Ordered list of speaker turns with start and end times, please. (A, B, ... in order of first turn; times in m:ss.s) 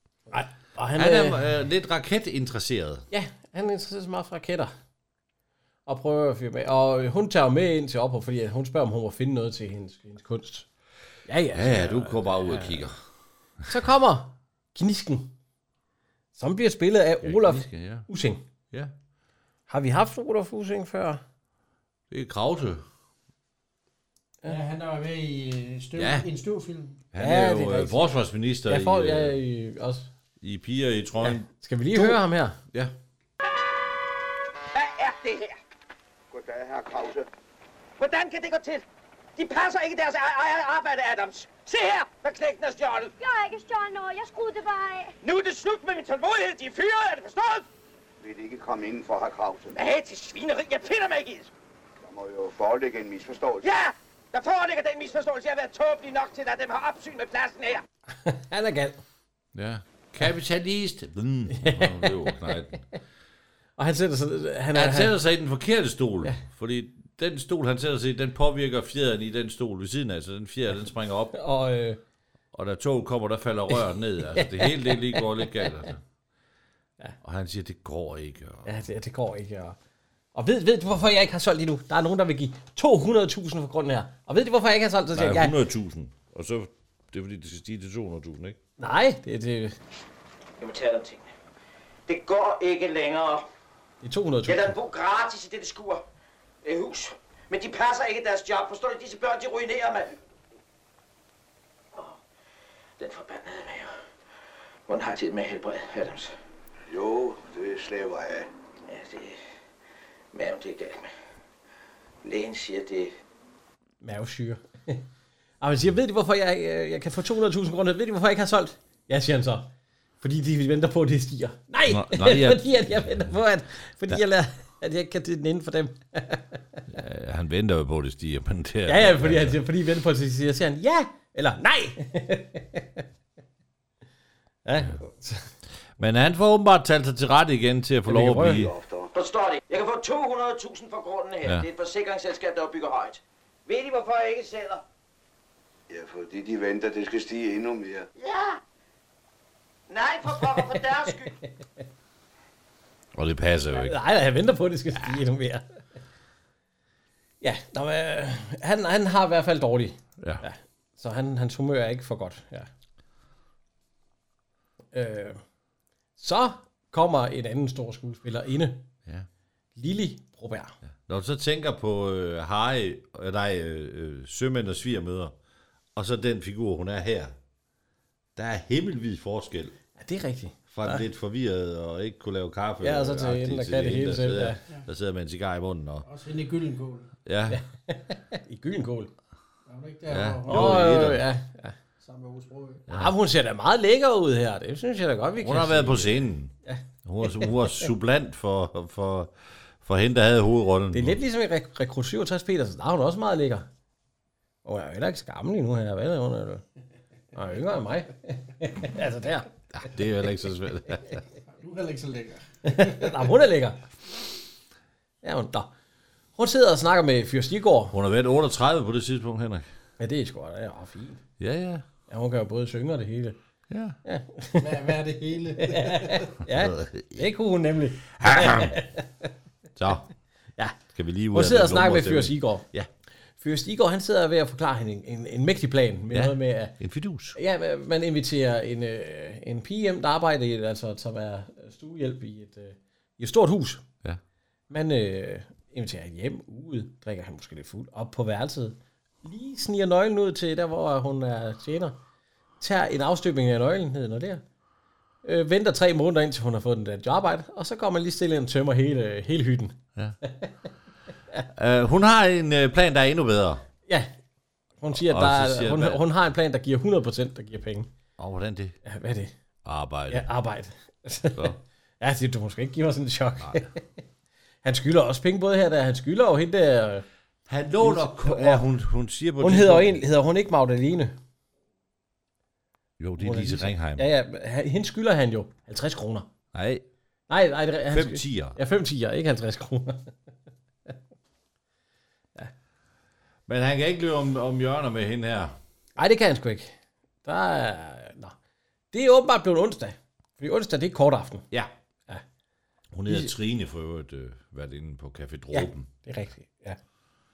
0:00.3-0:01.5 A
0:01.0-0:03.0 B
0:03.1-0:04.7 A
0:05.9-0:10.7 A
0:11.3-0:12.8 A
0:11.5-0:13.0 B
0:13.7-0:15.3 A
0:16.4-0:18.4 A
0:17.2-0:18.1 B
0:19.7-0:21.2 A
0:22.1-0:22.8 B
0:24.4-0:27.0 C
0:26.0-0:26.3 B
0:27.1-0:29.4 B
0:27.2-0:28.1 A
0:28.6-0:30.1 A
0:30.4-0:32.2 B
0:31.2-0:32.6 A
0:34.7-0:35.6 D
0:36.3-0:37.3 E
0:38.0-0:38.8 D
0:39.4-0:43.1 D
0:43.2-0:45.2 F
0:45.2-0:47.6 D
0:48.2-0:49.8 E
0:49.7-0:51.5 D
0:52.0-0:53.6 E
0:53.6-0:57.8 D
0:58.2-0:59.0 A
0:59.5-1:02.8 B
1:01.5-1:02.3 A
1:03.8-1:05.1 A
1:04.7-1:11.4 B
1:11.3-1:12.0 A
1:12.5-1:16.0 B
1:14.4-1:15.4 A
1:17.2-1:18.7 B
1:18.6-1:19.8 A
1:20.4-1:25.6 A
1:25.1-1:28.6 B
1:28.8-1:29.8 A
1:30.6-1:31.3 D
1:32.1-1:33.5 D
1:34.0-1:34.7 A
1:34.5-1:36.0 D
1:36.6-1:40.1 D
1:43.0-1:44.0 D
1:44.9-1:46.3 D
1:46.9-1:48.5 E
1:48.9-1:49.4 D
1:50.3-1:51.1 D
1:52.2-1:53.1 D
1:54.0-1:55.0 A
1:55.6-1:59.7 A
2:00.2-2:06.8 A
2:01.9-2:03.3 B
2:06.9-2:09.6 B
2:08.9-2:13.0 A
2:14.6-2:15.5 A
2:16.0-2:18.7 B
2:18.1-2:18.6 A
2:18.4-2:19.1 E
2:19.1-2:24.8 D
2:25.9-2:28.1 E
2:28.2-2:28.6 D
2:29.9-2:31.3 D
2:33.1-2:34.0 B
2:33.7-2:35.6 A
2:37.4-2:42.7 A
2:40.2-2:40.4 B
2:44.9-2:45.4 A
2:46.2-2:48.9 A
2:49.8-2:50.8 A
2:51.1-2:55.4 B
2:56.0-2:57.4 B
2:58.4-2:59.8 B
3:00.0-3:01.0 A
3:00.7-3:06.1 B
3:02.8-3:04.6 A
3:06.0-3:07.1 C
3:07.3-3:07.6 B
3:07.5-3:09.1 A
3:09.7-3:11.1 C
3:10.1-3:11.2 B
3:10.5-3:11.8 A
3:12.0-3:12.9 C
3:12.9-3:17.8 A
3:15.4-3:21.2 B
3:20.9-3:23.7 A
3:24.6-3:26.6 A
3:27.3-3:29.5 A
3:29.7-3:31.2 B
3:31.6-3:33.2 C
3:32.6-3:33.8 A
3:35.2-3:35.7 A
3:36.4-3:37.9 A
3:37.9-3:39.6 B
3:40.0-3:41.2 A
3:41.4-3:41.8 B
3:42.1-3:43.4 A
3:43.7-3:44.0 B
3:44.0-3:44.9 A
3:44.6-3:46.3 C
3:45.6-3:49.1 A
3:46.4-3:47.3 B
3:48.1-3:48.8 B
3:49.8-3:50.1 B
3:50.9-3:52.9 B
3:51.3-3:52.7 A
3:53.4-3:56.8 A
3:56.1-3:57.4 B
3:57.4-4:03.8 A
4:04.7-4:12.0 A
4:12.6-4:14.4 A
4:15.2-4:20.5 A
4:21.6-4:23.6 B
4:24.8-4:27.9 A
4:24.9-4:26.0 B
4:28.2-4:28.8 B
4:28.8-4:29.3 A
4:29.6-4:30.3 B
4:30.1-4:33.8 A
4:33.4-4:33.6 B
4:34.6-4:37.0 A
4:37.5-4:40.0 B
4:37.8-4:38.6 A
4:39.4-4:41.2 A
4:43.0-4:44.1 B
4:43.2-4:46.3 A
4:46.5-4:46.8 B
4:47.3-4:50.1 A
4:47.9-4:48.6 B
4:53.5-4:55.6 B
4:56.0-4:58.4 A
4:58.9-5:01.4 A
5:02.9-5:05.9 B
5:05.5-5:06.8 A